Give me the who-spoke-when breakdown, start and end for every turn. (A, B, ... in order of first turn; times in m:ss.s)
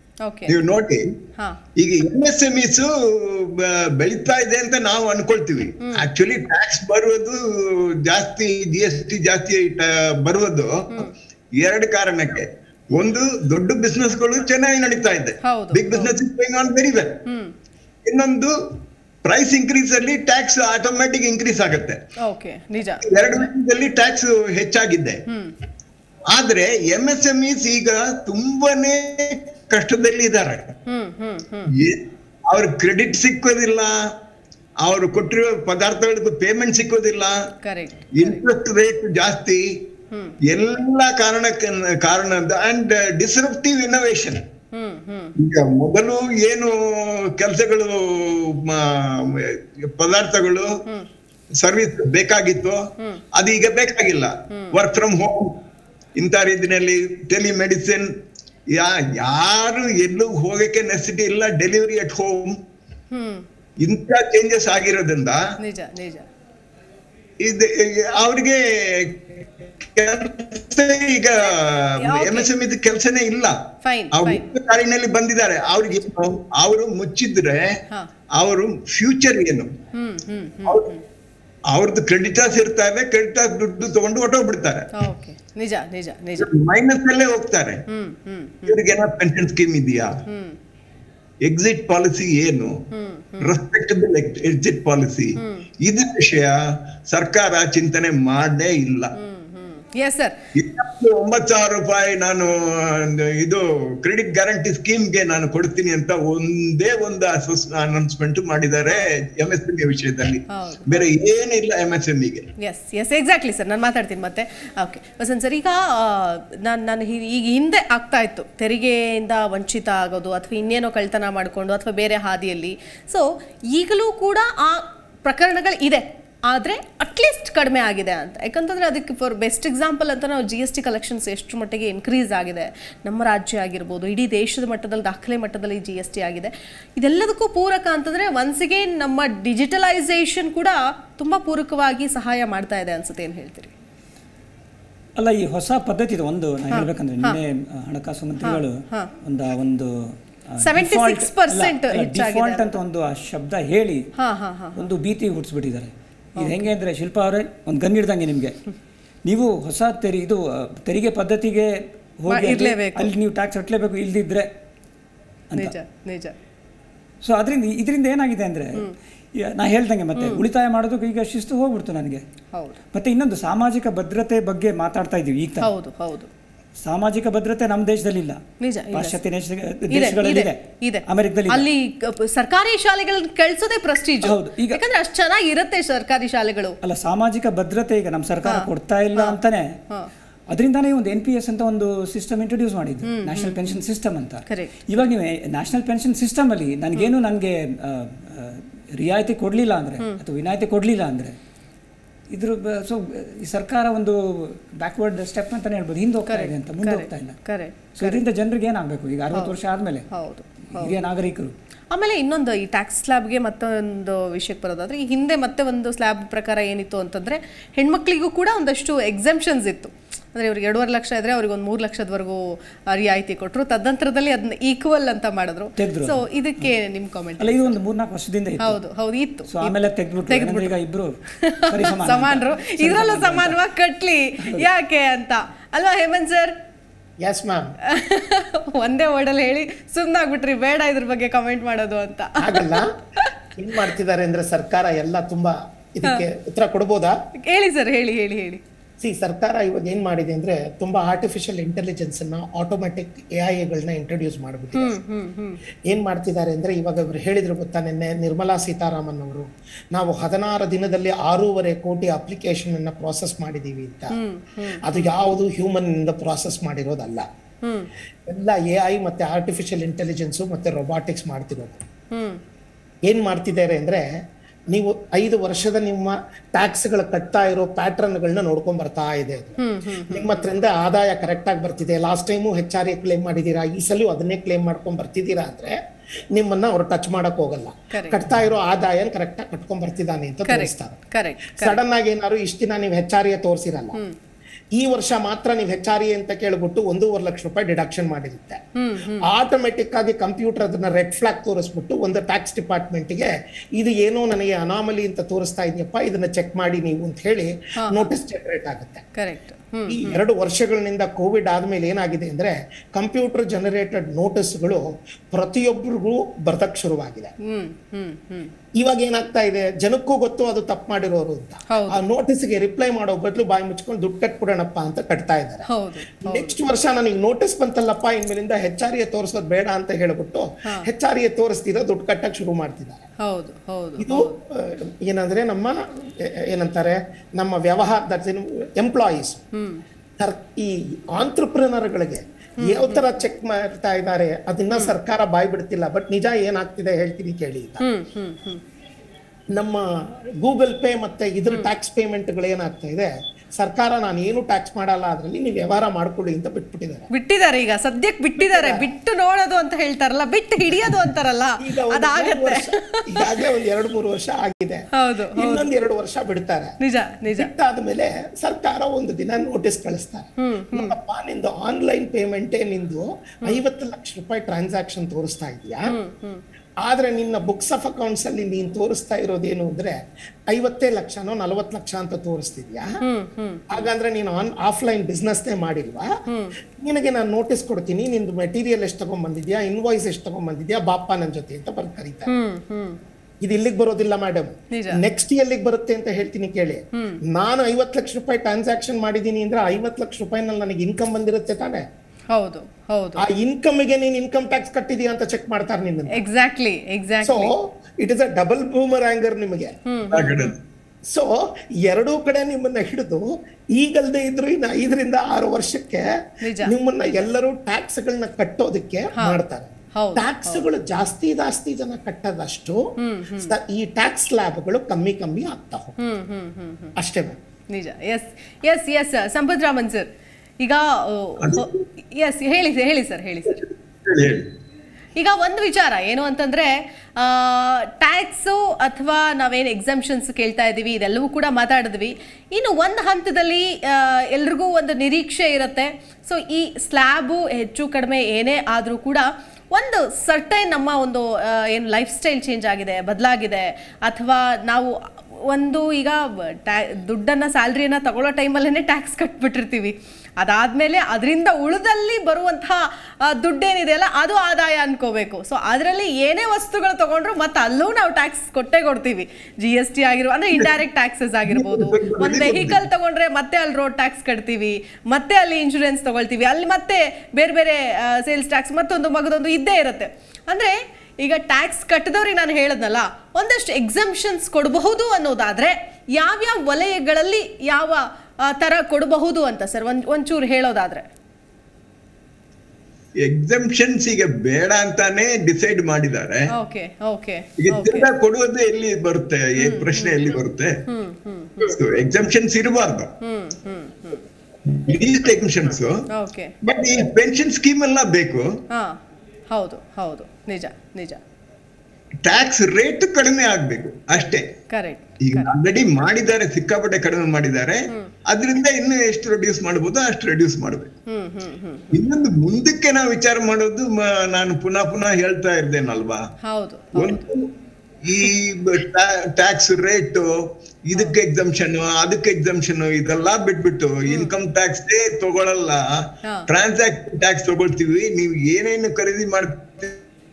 0:00.2-0:00.6 A
0:00.5-0:01.2 B
0:01.8-0:17.2 B
0:15.4-0:16.1 A
0:17.3-0:17.5 A
0:18.0-0:18.6 B
0:19.2-0:22.0 B
0:22.2-0:23.1 A
0:23.0-0:25.2 B
0:25.3-0:25.5 A
0:26.3-0:30.7 B
0:30.9-0:31.7 A
0:31.7-0:34.1 B
0:34.8-0:37.5 B
0:37.6-0:38.4 A
0:38.2-0:39.7 B
0:40.5-0:44.4 B
0:44.7-0:45.3 A
0:45.4-0:50.7 B
0:51.6-0:52.8 B
0:53.3-0:55.6 B
0:54.5-0:54.8 A
0:56.2-0:58.1 B
0:58.7-1:02.6 B
1:03.1-1:03.4 A
1:03.8-1:05.4 B
1:05.6-1:06.3 A
1:07.4-1:13.6 B
1:11.4-1:12.5 A
1:13.8-1:14.4 A
1:14.1-1:17.8 B
1:18.4-1:19.7 B
1:19.9-1:21.0 A
1:21.7-1:24.9 B
1:24.9-1:26.5 A
1:26.4-1:27.8 B
1:27.9-1:28.8 A
1:28.6-1:30.2 B
1:30.3-1:30.6 A
1:31.4-1:32.8 B
1:32.9-1:33.6 A
1:33.4-1:39.1 B
1:35.4-1:35.7 A
1:39.2-1:40.4 A
1:40.6-1:52.5 B
1:50.5-1:51.1 A
1:52.6-2:23.7 A
2:25.2-2:34.1 C
2:26.7-2:27.4 A
2:28.4-2:29.1 A
2:30.6-2:32.8 A
2:34.2-2:34.8 A
2:34.8-2:38.6 C
2:36.4-2:36.7 A
2:39.3-2:44.5 C
2:42.3-2:43.1 A
2:45.6-2:46.3 A
2:47.2-2:52.2 C
2:50.2-2:50.4 A
2:52.5-2:52.8 A
2:52.9-2:55.7 C
2:55.6-2:56.3 A
2:56.8-2:58.4 C
2:58.6-2:59.2 A
2:58.9-3:01.7 C
2:59.9-3:06.8 A
3:04.2-3:04.8 C
3:06.8-3:09.8 C
3:08.4-3:09.4 A
3:10.5-3:21.4 C
3:13.0-3:13.7 A
3:14.5-3:14.8 A
3:22.3-3:27.4 C
3:26.3-3:28.2 A
3:28.0-3:30.1 C
3:30.1-3:31.0 A
3:30.7-3:31.5 C
3:31.9-3:47.8 A
3:45.8-3:46.7 C
3:47.4-3:48.8 C
3:48.6-3:50.7 A
3:49.5-3:51.2 C
3:51.3-3:56.6 A
3:51.7-3:53.6 C
3:54.4-3:54.7 C
3:57.2-3:57.7 D
3:57.9-4:03.3 A
4:02.4-4:02.9 D
4:03.6-4:07.2 D
4:07.4-4:08.6 A
4:09.0-4:15.0 D
4:14.8-4:15.6 A
4:15.9-4:24.2 D
4:24.1-4:24.8 A
4:24.8-4:27.3 D
4:27.6-4:27.9 A
4:28.3-4:31.8 D
4:32.1-4:32.4 A
4:33.0-4:34.0 D
4:34.7-4:39.6 D
4:39.6-4:40.5 A
4:40.1-4:45.8 D
4:46.3-4:51.0 D
4:47.9-4:48.2 A
4:50.4-4:51.8 A
4:51.6-4:54.0 D
4:54.7-4:58.6 D
4:58.8-4:59.2 A
4:59.2-5:09.0 D
5:07.8-5:08.1 A
5:09.2-5:10.2 A
5:09.9-5:17.3 D
5:17.4-5:18.5 A
5:18.8-5:25.7 D
5:21.7-5:22.0 A
5:25.7-5:26.6 A
5:26.2-5:33.1 D
5:33.2-5:34.4 A
5:34.0-5:39.4 D
5:39.5-5:39.8 A
5:40.2-5:47.8 D
5:42.6-5:43.2 A
5:47.8-5:48.6 A
5:49.5-5:57.1 D
5:57.1-6:03.4 A
5:58.4-5:58.9 D
6:01.6-6:06.7 D
6:04.9-6:05.7 A
6:06.8-6:07.5 A
6:07.3-6:15.9 D
6:10.4-6:11.0 A
6:15.9-6:16.4 A
6:16.8-6:20.0 D
6:20.5-6:23.0 D
6:23.0-6:23.9 A
6:23.7-6:26.2 D
6:26.3-6:26.6 A
6:26.8-6:32.3 D
6:32.3-6:33.0 A
6:33.4-6:41.9 D
6:34.7-6:35.0 A
6:36.9-6:37.2 A
6:42.3-6:43.2 A
6:43.2-6:46.2 D
6:46.1-6:47.5 A
6:47.2-6:49.7 D
6:49.9-6:50.5 A
6:50.1-6:50.6 B
6:51.1-7:06.0 D
6:56.4-6:56.7 A
7:00.0-7:00.7 A
7:03.0-7:03.5 A
7:06.0-7:06.9 A
7:07.0-7:07.4 D
7:07.7-7:10.1 A
7:10.6-7:13.6 A
7:11.4-7:11.8 B
7:14.0-7:14.5 B
7:15.2-8:11.1 A
7:51.5-7:52.8 B
8:13.2-8:16.5 B
8:16.5-8:18.1 A
8:17.6-8:20.8 B
8:19.6-8:20.4 A
8:20.9-8:21.8 A
8:21.6-8:23.1 B
8:23.2-8:24.2 A
8:24.6-8:26.1 B
8:26.1-8:26.6 A
8:26.6-8:28.6 B
8:28.7-8:29.0 A
8:29.5-8:31.2 A
8:32.2-8:34.5 B
8:34.7-8:35.5 A
8:35.2-8:40.9 B
8:41.1-8:42.0 A
8:41.9-8:46.3 B
8:46.4-8:47.2 A
8:47.0-8:47.5 B
8:48.0-9:00.0 B
8:54.1-8:54.3 A